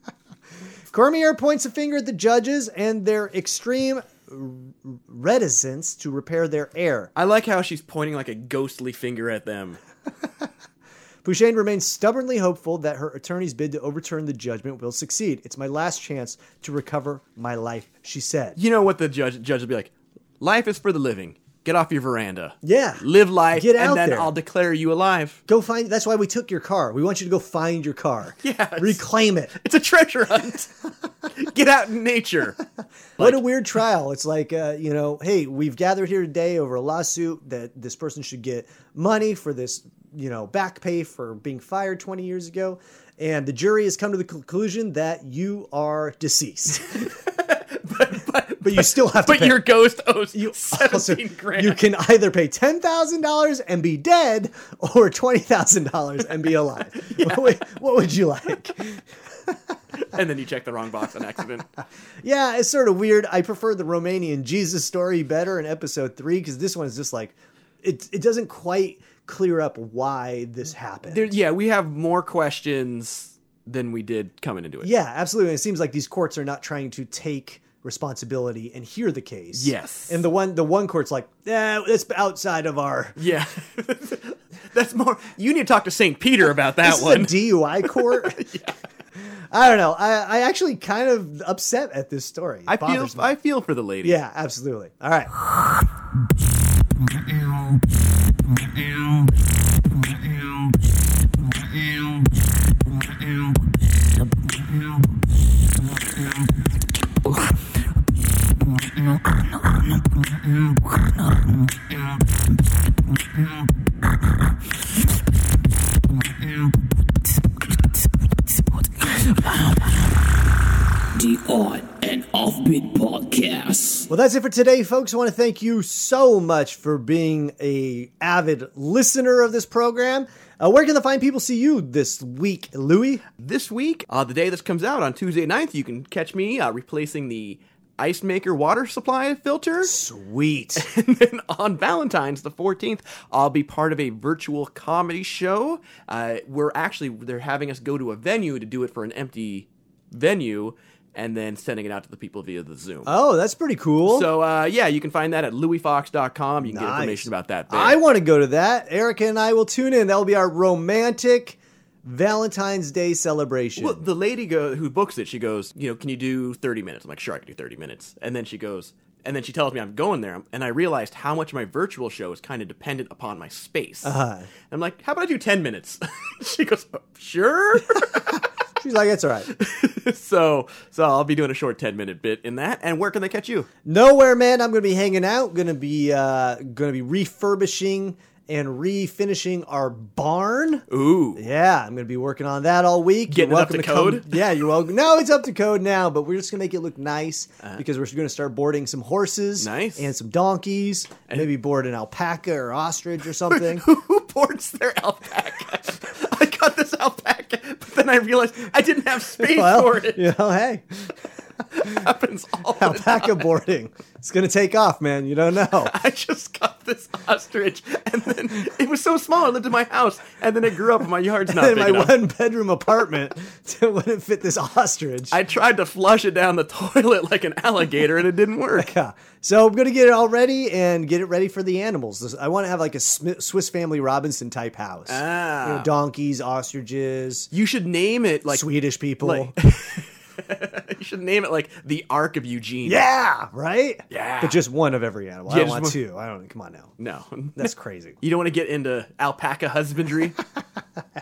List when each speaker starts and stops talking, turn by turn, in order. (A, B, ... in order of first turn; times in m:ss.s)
0:00.9-0:07.1 A
0:07.2-0:09.8 B
0:11.2-0:18.6 A
0:18.6-0:25.4 B
0:22.6-0:24.3 A
0:25.5-0:29.5 A
0:28.4-0:30.7 B
0:31.3-0:32.6 B
0:33.2-0:47.1 A
0:46.9-0:51.8 B
0:48.6-0:49.8 A
0:50.3-0:59.8 A
0:57.0-0:57.6 B
1:00.0-1:01.7 B
1:02.2-1:11.4 A
1:11.1-1:14.9 B
1:14.8-1:23.2 A
1:19.5-1:20.2 B
1:23.2-1:28.8 B
1:26.8-1:28.4 A
1:29.2-1:33.3 A
1:32.7-1:34.2 B
1:34.0-1:35.3 A
1:49.6-1:50.1 C
1:51.3-1:51.5 C
1:59.0-2:00.1 C
2:01.2-2:04.1 C
2:04.1-2:13.2 A
2:13.4-2:20.0 B
2:19.8-2:20.9 A
2:20.8-2:33.1 B
2:33.1-2:34.3 A
2:34.1-2:38.0 B
2:36.6-2:44.0 A
2:43.8-2:54.2 B
2:54.0-2:54.5 A
2:54.7-2:58.4 B
2:58.1-2:59.5 A
2:59.5-3:03.7 B
3:03.8-3:10.8 A
3:10.9-3:11.4 B
3:11.4-3:23.8 A
3:13.3-3:14.4 B
3:19.6-3:20.1 B
3:23.5-3:30.3 B
3:29.4-3:31.1 A
3:31.7-3:33.5 B
3:32.8-3:35.9 A
3:35.8-3:42.2 B
3:41.5-3:45.4 A
3:45.3-3:48.9 B
3:48.8-3:57.5 A
3:55.1-3:55.9 B
3:57.5-3:58.6 B
3:58.5-3:59.6 A
3:59.2-4:03.0 B
4:02.8-4:06.9 A
4:04.1-4:04.6 B
4:05.5-4:06.0 B
4:07.0-4:10.4 B
4:07.6-4:08.2 A